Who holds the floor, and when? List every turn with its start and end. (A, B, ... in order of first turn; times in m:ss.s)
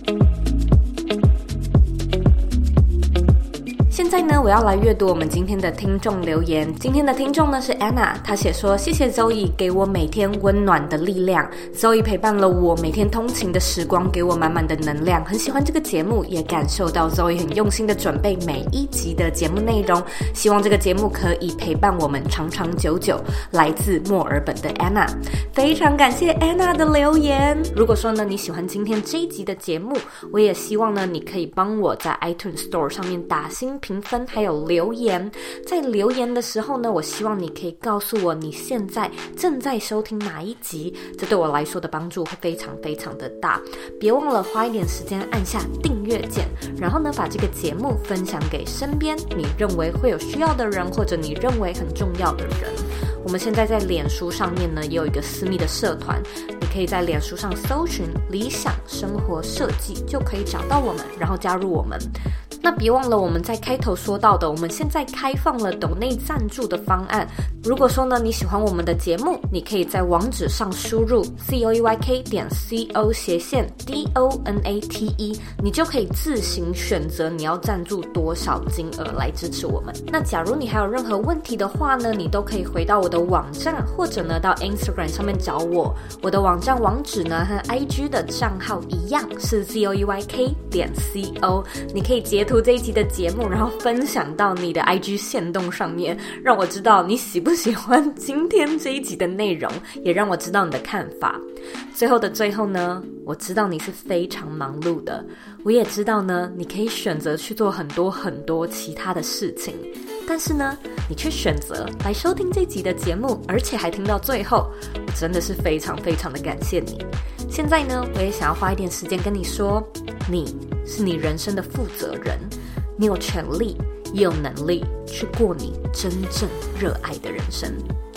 0:03.9-1:02.1 A
1:02.6-2:07.9 A